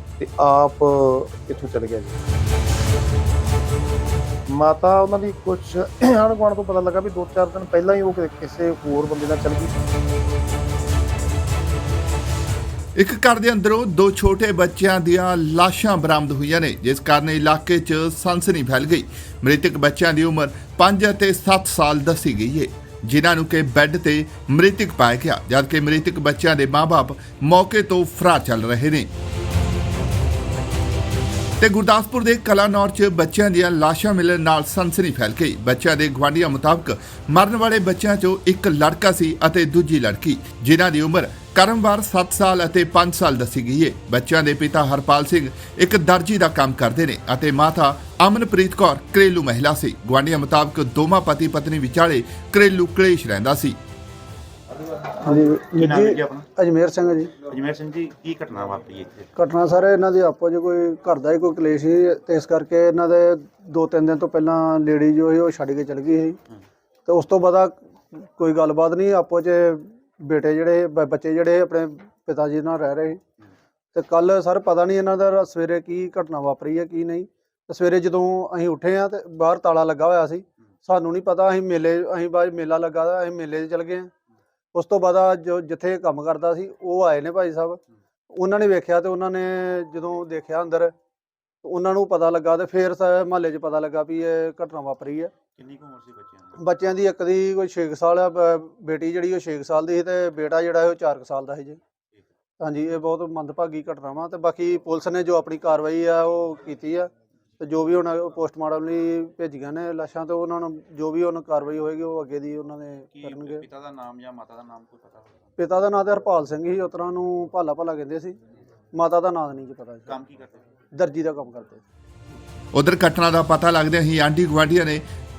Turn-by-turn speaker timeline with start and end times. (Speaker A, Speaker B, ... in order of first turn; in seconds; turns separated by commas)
Speaker A: 0.2-2.2, Speaker A: 4.5-9.7, Speaker B: 12.9-29.1, Speaker B: 31.6-53.8, Speaker C: 55.2-57.3, Speaker D: 55.2-56.5, Speaker D: 57.4-59.3, Speaker C: 59.3-66.4, Speaker C: 67.0-73.2, Speaker C: 73.9-84.1, Speaker C: 84.7-90.9, Speaker C: 91.6-95.3, Speaker D: 95.5-96.6, Speaker C: 96.5-101.8, Speaker C: 102.6-113.6, Speaker D: 113.1-115.5, Speaker C: 115.6-118.4, Speaker C: 118.9-120.1, Speaker D: 120.1-120.9, Speaker C: 120.9-121.8, Speaker B: 122.7-125.0